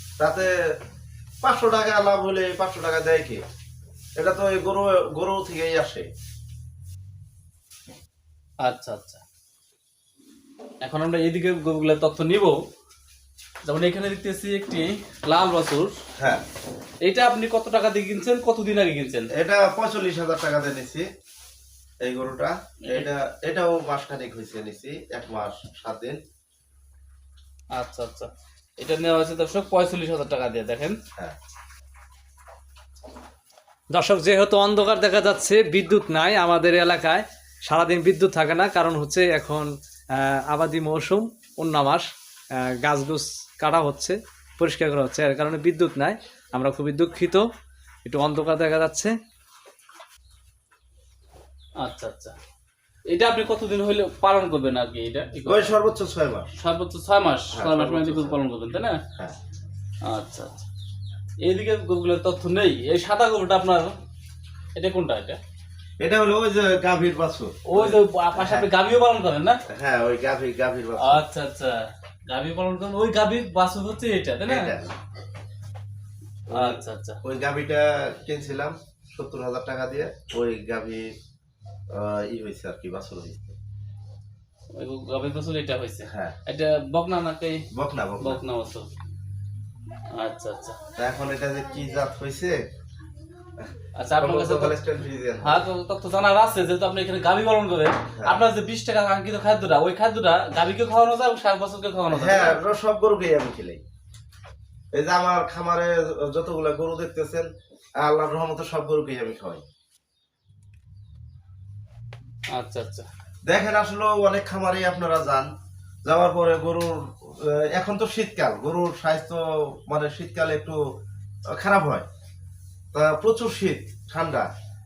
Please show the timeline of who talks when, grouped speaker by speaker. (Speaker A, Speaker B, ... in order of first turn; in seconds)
Speaker A: 0.2-0.5, 1.4-3.4, 4.2-6.1, 19.4-21.1, 22.0-26.2, 55.5-56.5, 57.5-58.4, 66.0-68.7, 69.7-71.2, 74.5-74.9, 76.5-81.1, 81.9-83.6, 86.0-86.4, 87.7-88.4, 91.0-92.6, 93.6-95.6, 102.1-103.8, 104.9-109.6, 113.5-115.5, 116.0-120.8, 121.5-122.1, 122.9-124.5
Speaker B: 8.6-9.2, 10.8-12.6, 13.7-15.9, 17.0-19.3, 27.7-31.0, 51.8-52.4, 53.1-55.7, 56.6-59.0, 60.1-60.6, 61.4-64.0, 64.8-65.4, 67.7-69.6, 71.0-74.7, 76.5-77.2, 84.7-87.7, 88.2-88.9, 90.1-90.8, 94.0-94.7, 95.4-102.6, 112.5-113.1
Speaker C: 33.9-47.5, 48.0-49.1